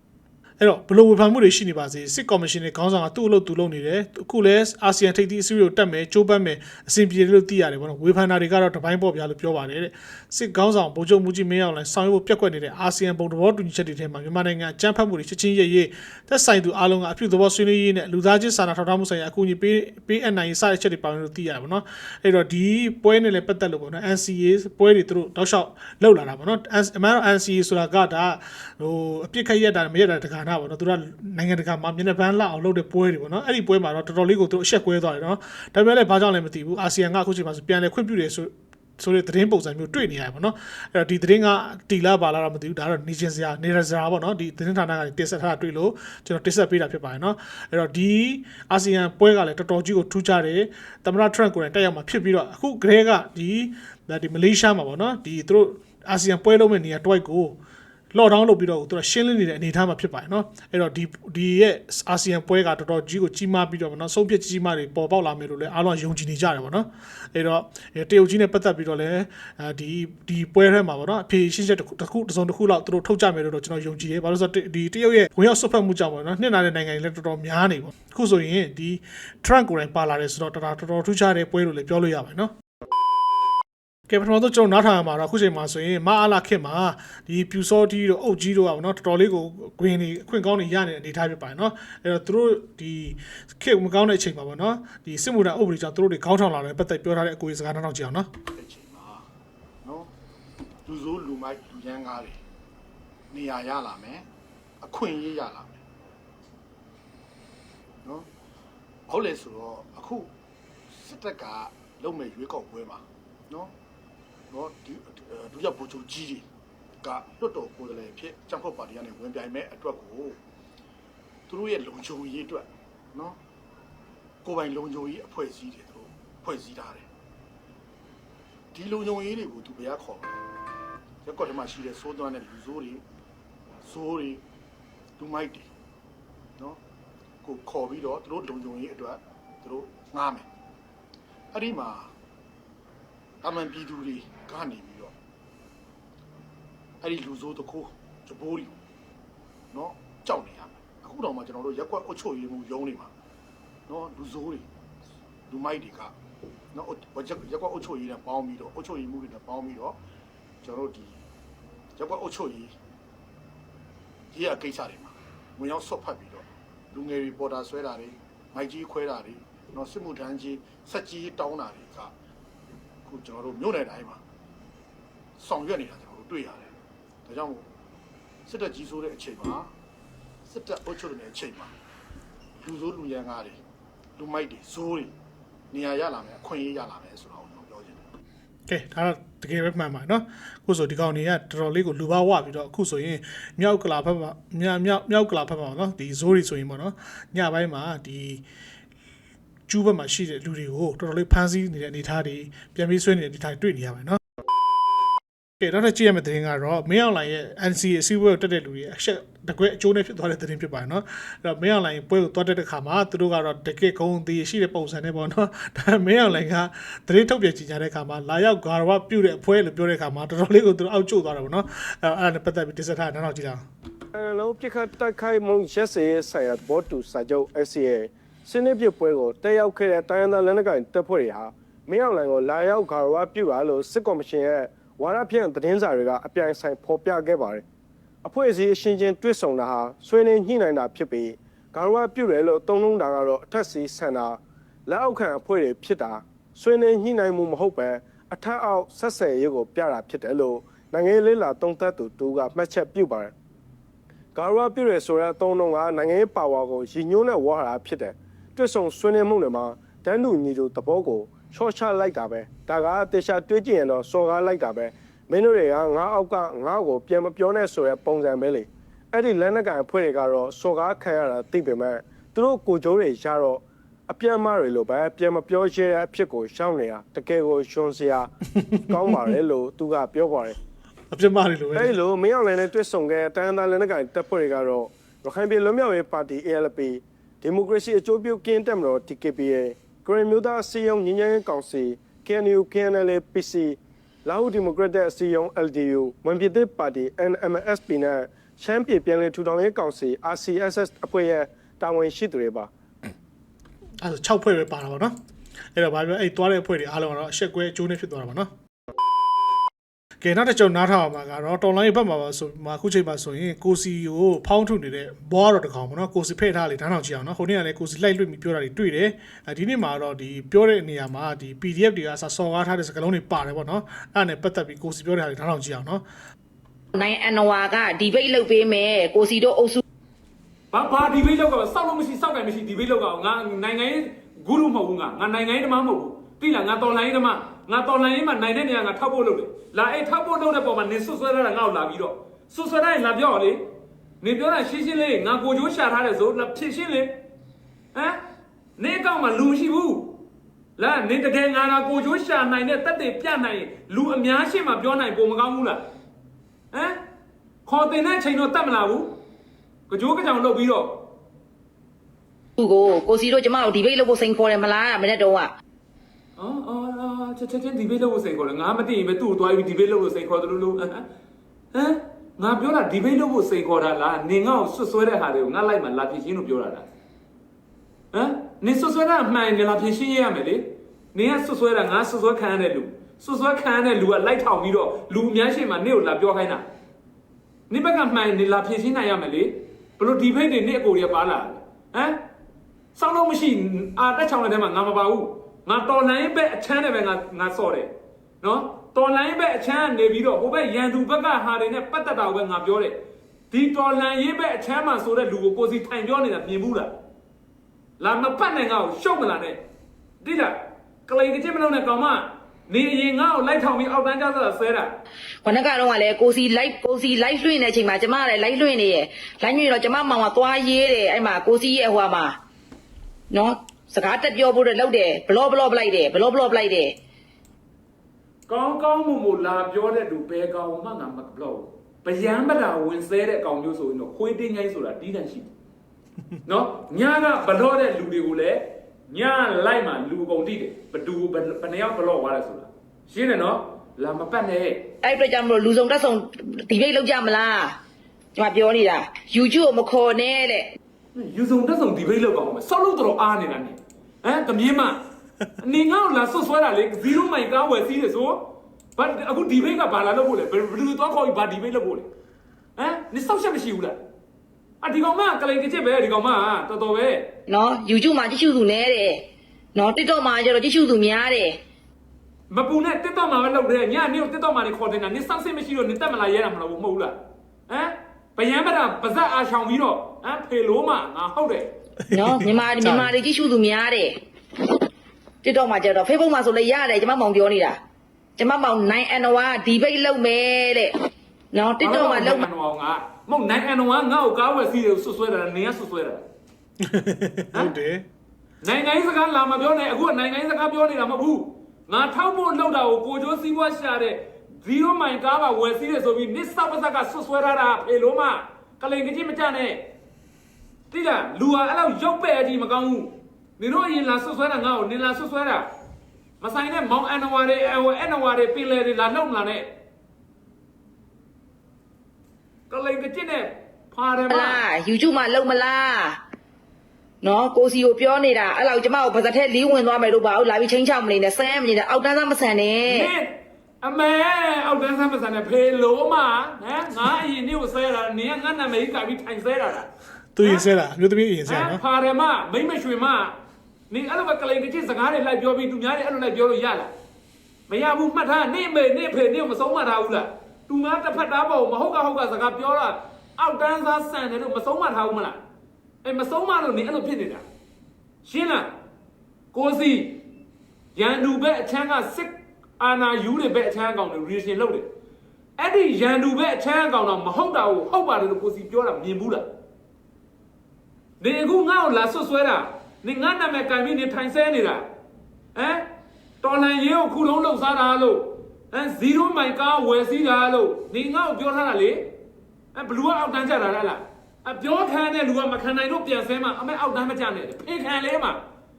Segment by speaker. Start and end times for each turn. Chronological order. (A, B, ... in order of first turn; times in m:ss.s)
0:00.6-0:57.6 A
0:58.1-1:22.5 A
1:24.1-1:38.3 A
1:38.5-1:39.2 B
1:39.8-1:40.1 B
1:40.8-1:42.4 B
1:43.3-1:44.2 B
1:44.8-1:45.8 B
1:49.1-1:50.3 B
1:50.9-1:53.7 B
1:54.5-1:56.4 B
1:57.0-2:00.4 B
2:01.5-2:03.4 B
2:04.4-2:07.1 B
2:08.7-2:10.4 B
2:11.2-2:13.0 B
2:13.8-2:14.4 B
2:15.2-2:15.7 B
2:17.4-2:20.5 B
2:21.5-2:22.1 B
2:23.4-2:25.1 B
2:27.0-2:28.8 B
2:29.7-2:33.1 B
2:33.9-2:34.7 B
2:35.5-2:36.1 B
2:36.7-2:40.0 B
2:40.6-2:41.2 B
2:42.0-2:42.8 B
2:44.3-2:52.1 B
2:53.1-2:54.2 B
2:55.4-2:56.7 B
2:57.2-2:57.6 B
2:58.4-2:59.7 B
3:00.5-3:01.7 B
3:02.6-3:03.6 B
3:04.2-3:05.1 B
3:05.7-3:08.0 B
3:08.7-3:18.4 A
3:19.7-3:24.2 A
3:25.6-3:43.6 A
3:44.1-3:57.6 C
3:58.2-4:13.3 C
4:14.3-4:38.3 C
4:38.8-4:40.6 C
4:41.1-4:41.9 A
4:41.8-5:02.7 C
5:04.0-5:05.2 A
5:05.8-5:08.5 A
5:10.2-5:26.0 A
5:26.9-5:29.8 D
5:30.7-5:43.7 E
5:44.2-5:47.2 E
5:47.9-5:48.2 E
5:48.8-5:50.2 E
5:50.8-5:55.8 E
5:56.7-5:57.0 E
5:57.7-5:59.2 E
5:59.9-6:01.0 E
6:02.6-6:05.5 D
6:06.4-6:11.1 E
6:11.7-6:16.9 E
6:18.1-6:26.7 E
6:27.7-6:32.2 E
6:32.9-6:43.0 E
6:43.5-6:46.9 E
6:48.0-6:49.6 E
6:50.2-6:54.9 E
6:55.4-7:02.4 D
7:03.3-7:07.0 D
7:08.5-7:15.5 E
7:16.4-7:24.9 E
7:25.0-7:27.8 D
7:28.4-7:30.8 D
7:31.1-7:35.0 E
7:35.6-7:42.1 E
7:42.8-7:44.0 E
7:44.8-7:47.3 E
7:47.5-7:49.2 D
7:49.7-7:51.6 D
7:52.5-8:01.7 E
8:02.0-8:03.1 A
8:02.1-8:04.8 D
8:05.4-8:07.8 D
8:08.4-8:10.9 D
8:11.5-8:12.5 D
8:11.8-8:16.2 E
8:16.9-8:18.0 A
8:18.6-8:29.9 E
8:30.9-8:35.7 E
8:36.4-8:39.7 E
8:42.7-8:44.6 E
8:44.3-8:46.2 D
8:47.2-8:53.1 D
8:52.8-8:59.9 E
9:00.4-9:01.8 A
9:00.4-9:00.7 E
9:01.4-9:03.4 E
9:03.9-9:06.9 E
9:07.7-9:15.4 E
9:16.0-9:17.4 E
9:18.2-9:18.7 E
9:19.5-9:20.2 E
9:20.9-9:24.9 E
9:25.6-9:29.5 E
9:31.2-9:34.9 E
9:35.6-9:35.8 E
9:36.4-9:42.1 E
9:42.7-9:48.4 E